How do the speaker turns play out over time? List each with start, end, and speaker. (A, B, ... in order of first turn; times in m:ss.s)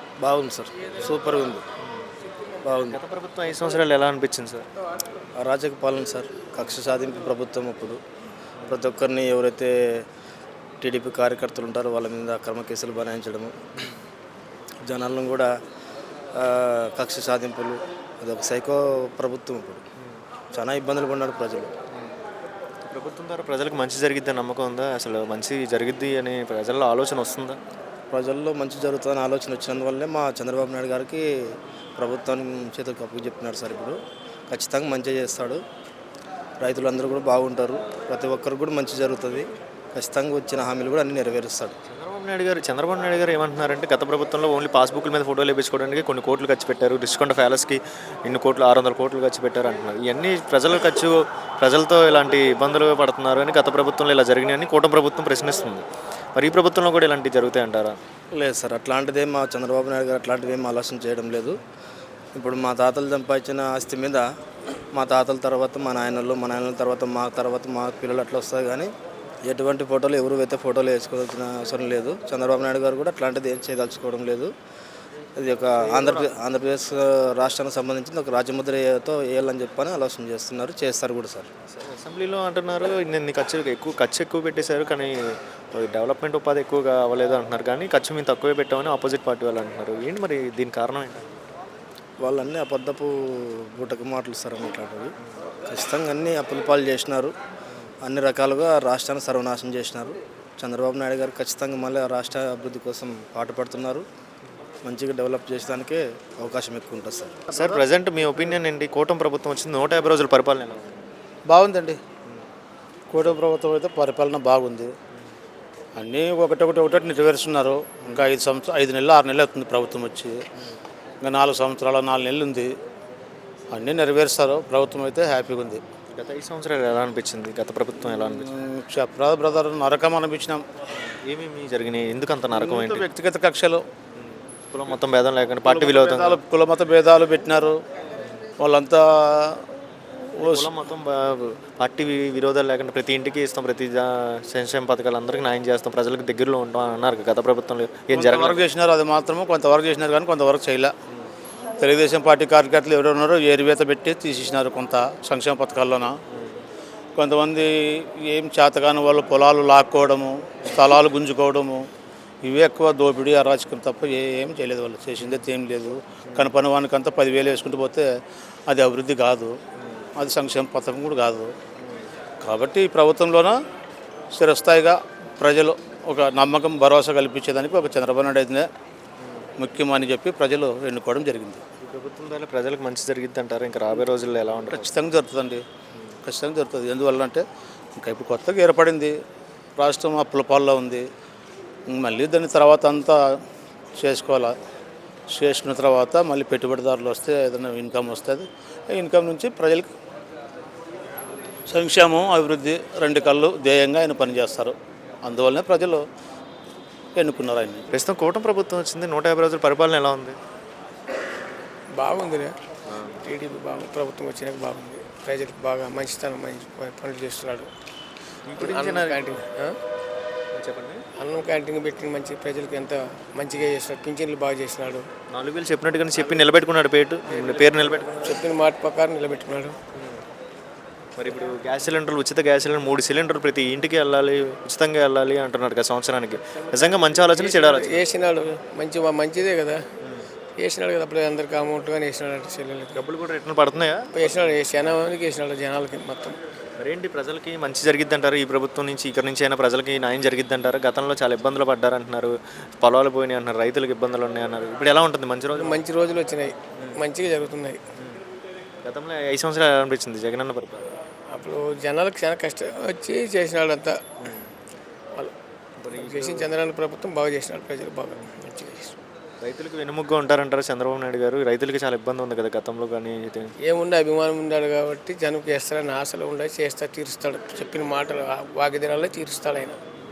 0:00.2-0:01.6 A
0:02.6-0:03.0 A
0:02.9-0:04.6 B
0:05.4-0:08.0 A
0:08.7-0:10.0 A
0:10.8-0:13.7 A
0:14.8-0:15.5 A
0:16.3-0:19.8 A
0:20.5-0:21.7 A
0:22.9-0:27.6 B
0:28.1-0:31.2 A
0:32.0-0:34.0 A
0:34.5-0:35.6 A
0:36.6-0:41.8 A
0:41.9-0:55.8 B
0:56.4-0:58.0 B
0:58.3-1:01.6 A
1:02.3-1:04.2 A
1:04.9-1:08.9 A
1:09.4-1:14.5 A
1:15.4-1:21.5 A
1:21.7-1:31.2 B
1:32.2-1:35.1 A
1:35.7-1:37.3 A
1:38.0-1:44.0 A
1:44.8-1:47.4 A
1:47.5-1:47.8 C
1:47.5-1:51.0 B
1:51.5-1:52.0 C
1:53.1-1:54.9 C
1:56.0-2:00.4 C
2:01.2-2:02.7 C
2:03.7-2:05.8 C
2:06.2-2:08.5 B
2:08.0-2:10.6 C
2:11.1-2:13.1 B
2:12.5-2:13.8 C
2:14.2-2:16.4 B
2:15.6-2:17.8 C
2:18.6-2:19.6 C
2:20.4-2:20.7 C
2:20.4-2:28.6 B
2:28.1-2:30.9 C
2:31.8-2:36.2 C
2:37.2-2:41.8 C
2:42.4-2:48.1 C
2:48.7-2:49.6 C
2:50.2-2:51.5 C
2:51.8-2:52.0 B
2:52.4-2:53.6 C
2:54.3-2:58.7 C
2:59.6-3:01.6 C
3:01.8-3:05.0 B
3:04.7-3:05.6 C
3:06.2-3:07.4 C
3:08.0-3:09.2 C
3:09.8-3:11.0 C
3:11.9-3:13.4 C
3:14.0-3:14.5 C
3:15.3-3:19.9 C
3:21.7-3:26.0 C
3:27.1-3:27.9 C
3:27.9-3:30.4 B
3:31.9-3:32.5 D
3:32.9-3:33.2 B
3:33.2-3:37.7 D
3:38.4-3:39.3 B
3:38.6-3:39.8 D
3:40.5-3:41.0 B
3:41.2-3:45.1 D
3:45.3-3:48.2 B
3:48.2-3:49.8 D
3:49.9-3:50.2 B
3:51.2-3:58.0 B
3:57.3-3:59.8 D
4:00.6-4:03.1 D
4:02.9-4:04.1 B
4:04.1-4:06.4 D
4:06.8-4:15.8 B
4:15.5-4:17.8 D
4:18.8-4:20.9 B
4:21.3-4:24.1 D
4:24.2-4:24.5 B
4:25.8-4:26.6 B
4:25.9-4:29.0 D
4:29.4-4:33.5 B
4:33.6-4:39.8 D